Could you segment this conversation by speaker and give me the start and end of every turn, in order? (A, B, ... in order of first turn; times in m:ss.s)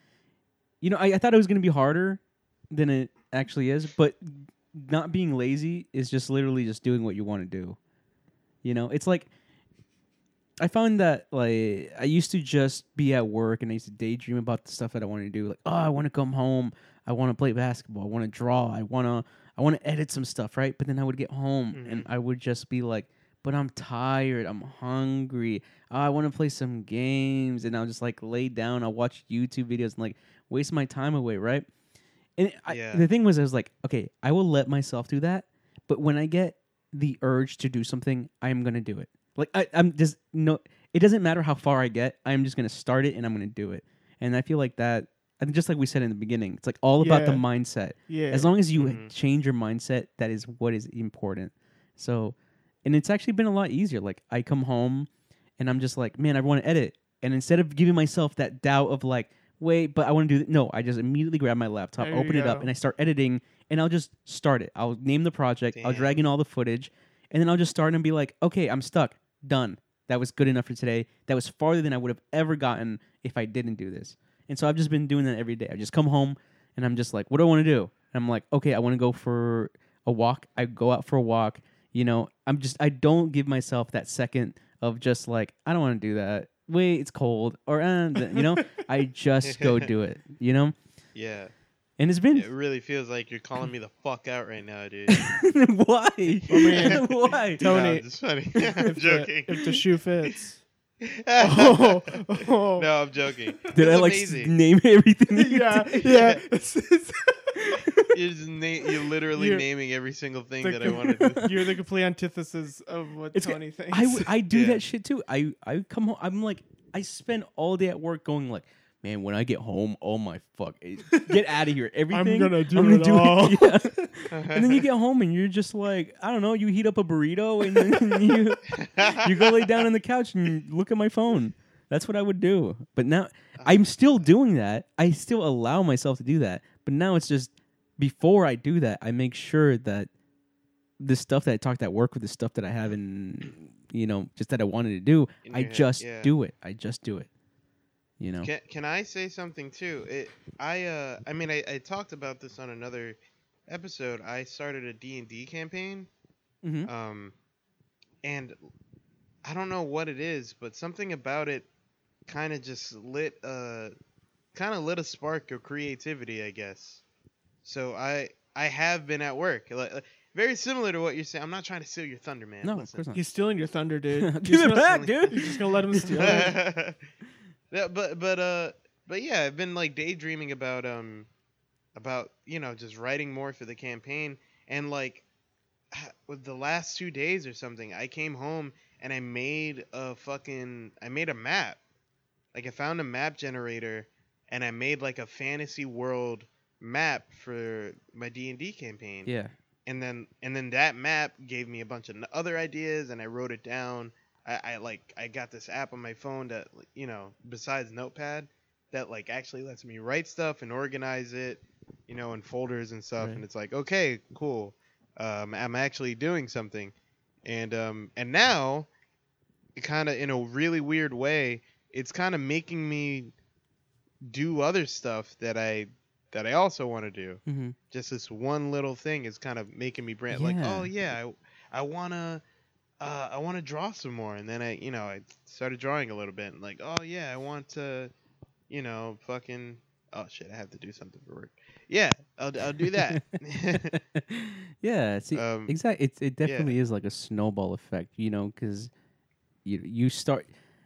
0:00.8-0:07.8 A
0:08.6-0:09.3 A
0:10.6-0:31.7 A
0:21.7-0:22.1 B
0:32.4-1:30.8 A
0:32.7-0:33.1 B
0:47.0-0:47.4 C
0:48.1-0:48.5 C
0:48.8-0:49.1 B
1:02.0-1:02.7 C
1:05.7-1:06.2 B
1:29.4-1:29.9 B
1:31.2-1:31.5 B
1:32.0-1:32.5 A
1:32.3-1:35.4 B
1:35.1-1:37.8 A
1:36.5-1:38.1 C
1:36.5-1:37.0 B
1:37.6-1:40.3 B
1:38.6-1:40.6 C
1:41.0-1:44.5 B
1:41.4-1:42.9 C
1:43.7-1:46.1 A
1:45.3-1:48.1 C
1:46.1-1:46.4 B
1:48.1-1:51.5 B
1:49.0-1:49.7 C
1:50.6-1:54.3 C
1:50.9-1:51.6 A
1:53.3-2:20.1 A
1:54.5-1:54.8 B
2:02.1-2:04.1 C
2:04.3-2:04.8 B
2:08.7-2:09.7 B
2:13.6-2:13.9 B
2:21.0-2:27.3 A
2:25.4-2:26.3 B
2:28.2-2:28.5 A
2:28.4-2:33.2 B
2:33.7-2:36.1 B
2:36.6-2:36.9 A
2:36.9-2:37.3 B
2:38.2-2:38.6 B
2:39.4-2:41.7 B
2:42.3-2:43.9 B
2:44.6-2:47.0 B
2:47.6-2:53.0 B
2:52.6-2:53.2 A
2:53.1-2:56.6 C
2:54.2-2:56.5 A
2:54.8-2:55.5 B
2:56.1-2:57.0 B
2:57.7-3:01.3 B
3:02.0-3:05.2 B
3:05.9-3:11.8 B
3:12.5-3:19.3 B
3:19.3-3:19.5 A
3:19.9-3:36.9 B
3:33.2-3:33.4 A
3:37.4-3:38.9 B
3:39.8-3:43.3 B
3:44.2-3:52.4 B
3:47.5-3:47.8 A
3:50.3-3:50.9 A
3:53.0-3:58.1 B
3:58.7-4:04.0 B
4:03.0-4:08.9 A
4:05.3-4:05.8 B
4:06.4-4:06.8 B
4:09.6-4:10.5 A